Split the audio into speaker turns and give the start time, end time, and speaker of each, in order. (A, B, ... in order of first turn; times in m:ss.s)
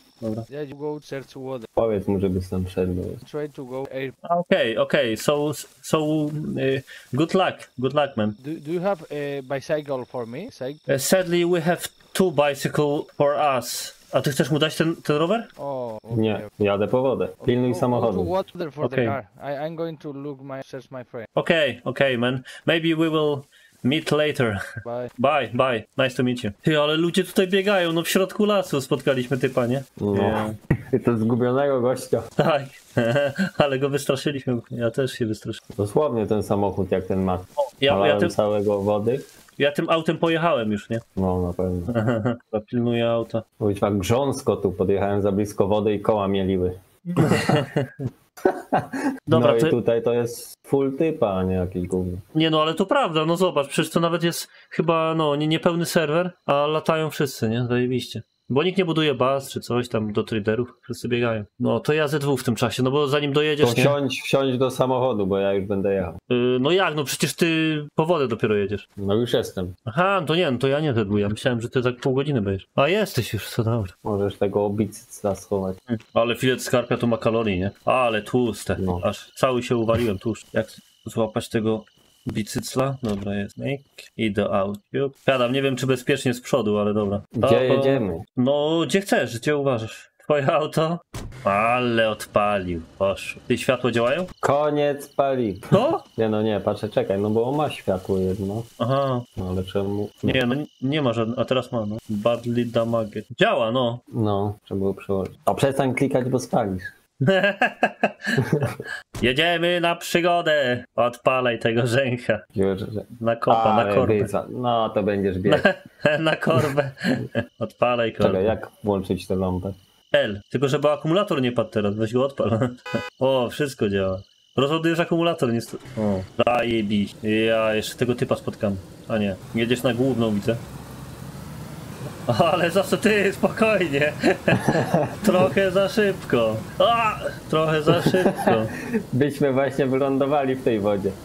0:00.5-0:01.7 A
0:01.8-0:03.2 B
0:03.2-0:04.2 A
0:04.2-0:08.4 C
0:08.4-0:10.8 A
0:10.9-0:15.5 C
0:15.6-0:16.5 A
0:16.1-0:18.3 B
0:17.4-0:21.3 A
0:18.8-0:19.2 C
0:21.3-0:24.6 C
0:24.8-0:25.1 A
0:25.2-0:30.6 C
0:30.0-0:32.3 B
0:32.4-0:35.6 C
0:35.7-0:39.2 B
0:37.6-0:38.3 C
0:39.6-0:41.0 C
0:41.1-0:41.9 B
0:41.9-0:43.4 C
0:43.6-0:47.6 B
0:47.1-0:47.9 C
0:48.4-0:52.2 B
0:49.3-0:49.8 C
0:52.3-1:04.0 C
1:03.6-1:06.2 B
1:06.3-1:08.9 C
1:09.0-1:09.7 B
1:09.8-1:13.9 C
1:14.0-1:15.8 B
1:15.9-1:34.3 C
1:18.8-1:19.0 B
1:27.3-1:28.2 B
1:34.4-1:38.7 B
1:35.7-1:36.0 C
1:38.8-1:39.3 C
1:39.4-1:40.4 B
1:40.2-1:44.0 C
1:44.1-1:46.9 B
1:47.2-1:52.4 C
1:48.4-1:48.8 B
1:52.5-1:55.6 B
1:53.2-1:54.3 C
1:55.4-1:58.6 C
1:58.2-1:59.8 B
2:00.1-2:10.6 C
2:12.2-2:18.7 C
2:14.6-2:15.2 B
2:17.9-2:21.2 B